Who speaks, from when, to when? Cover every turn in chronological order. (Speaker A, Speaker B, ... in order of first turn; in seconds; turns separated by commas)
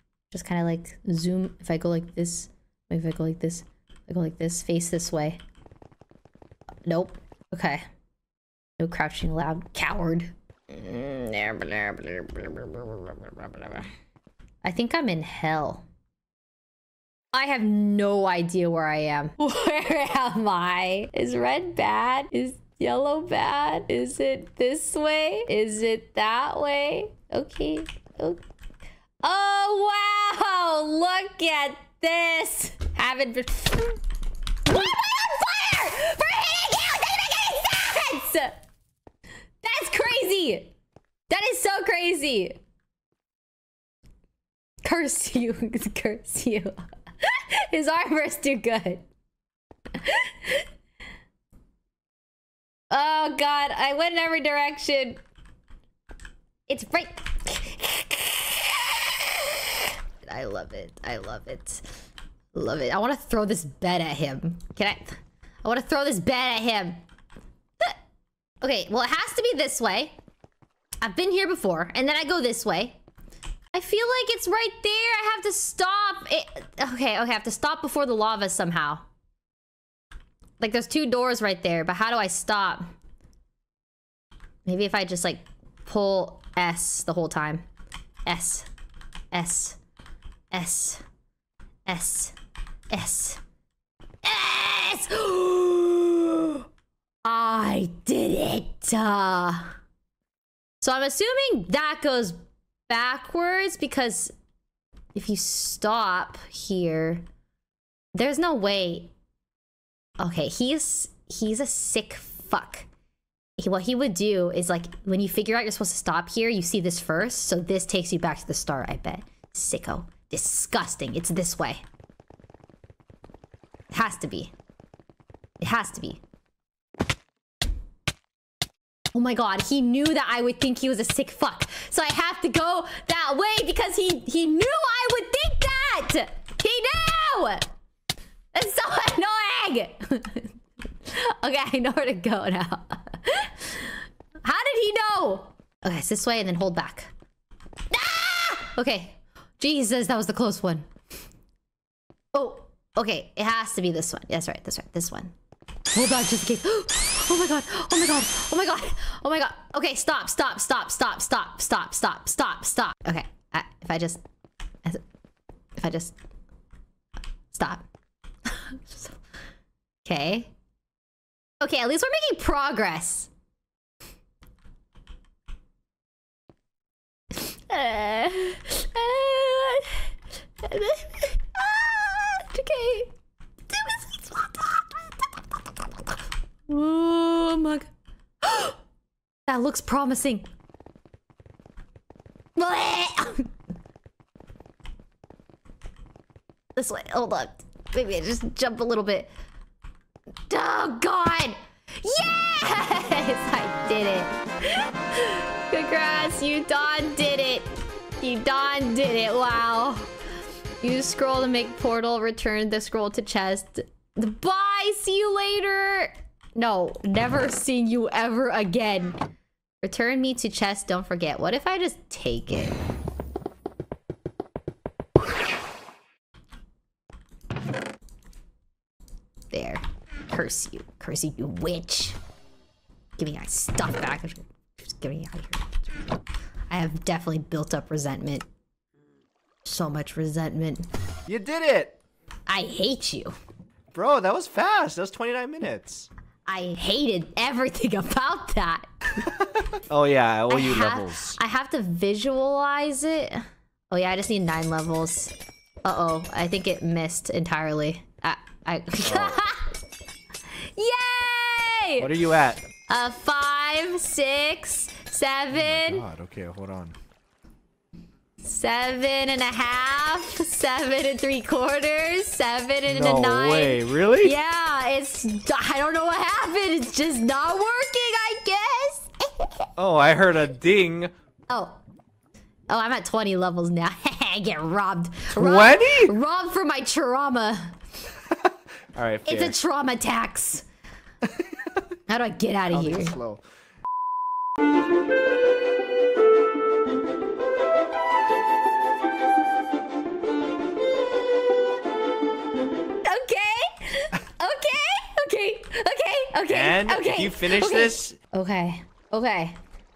Speaker A: 0.3-5.4, Speaker A: 6.9-7.8, Speaker A: 8.8-13.9, Speaker A: 14.6-15.8, Speaker A: 17.3-28.4, Speaker A: 29.2-34.0, Speaker A: 34.6-38.6, Speaker A: 39.6-40.7, Speaker A: 41.3-42.6, Speaker A: 44.8-49.0, Speaker A: 50.0-50.6, Speaker A: 52.9-55.2, Speaker A: 56.7-61.9, Speaker A: 62.5-67.0, Speaker A: 68.6-70.1, Speaker A: 71.0-73.0, Speaker A: 73.7-79.1, Speaker A: 80.6-82.9, Speaker A: 84.7-87.6, Speaker A: 88.3-88.7, Speaker A: 89.3-89.8, Speaker A: 90.5-91.0, Speaker A: 91.9-92.3, Speaker A: 92.9-93.4, Speaker A: 94.2-96.7, Speaker A: 97.2-99.8, Speaker A: 100.8-102.4, Speaker A: 102.9-104.3, Speaker A: 105.2-107.2, Speaker A: 108.2-109.1, Speaker A: 110.2-112.9, Speaker A: 113.6-121.8, Speaker A: 123.9-124.5, Speaker A: 125.6-126.2, Speaker A: 129.1-137.7, Speaker A: 138.5-140.5, Speaker A: 141.1-147.1, Speaker A: 147.9-150.9, Speaker A: 152.3-155.3, Speaker A: 155.9-164.2, Speaker A: 165.8-166.2, Speaker A: 167.5-167.8, Speaker A: 168.5-169.2, Speaker A: 170.0-170.5, Speaker A: 171.6-173.3, Speaker A: 177.3-183.1, Speaker A: 183.7-185.3, Speaker A: 186.7-187.9, Speaker A: 188.4-188.8, Speaker A: 189.5-190.5, Speaker A: 192.6-193.5, Speaker A: 196.8-199.3, Speaker A: 200.5-210.1, Speaker A: 210.8-219.2, Speaker A: 219.8-222.8, Speaker A: 229.5-232.2, Speaker A: 233.2-236.1, Speaker A: 236.7-238.5, Speaker A: 239.7-240.9, Speaker B: 241.3-242.0, Speaker A: 242.5-243.3, Speaker B: 243.9-246.1, Speaker A: 246.5-248.9, Speaker B: 249.2-251.4, Speaker A: 250.5-255.3, Speaker A: 255.8-259.7, Speaker B: 259.0-259.4, Speaker A: 260.6-262.1, Speaker B: 262.0-262.6, Speaker A: 262.9-266.1, Speaker B: 265.5-266.9, Speaker A: 268.4-279.7, Speaker B: 272.9-274.4, Speaker B: 279.8-281.1, Speaker A: 281.5-281.8, Speaker A: 282.7-287.8, Speaker B: 285.3-286.1, Speaker B: 288.5-289.6, Speaker A: 289.3-290.6, Speaker A: 292.1-293.1, Speaker B: 292.7-293.4, Speaker A: 303.0-309.6, Speaker B: 306.5-308.2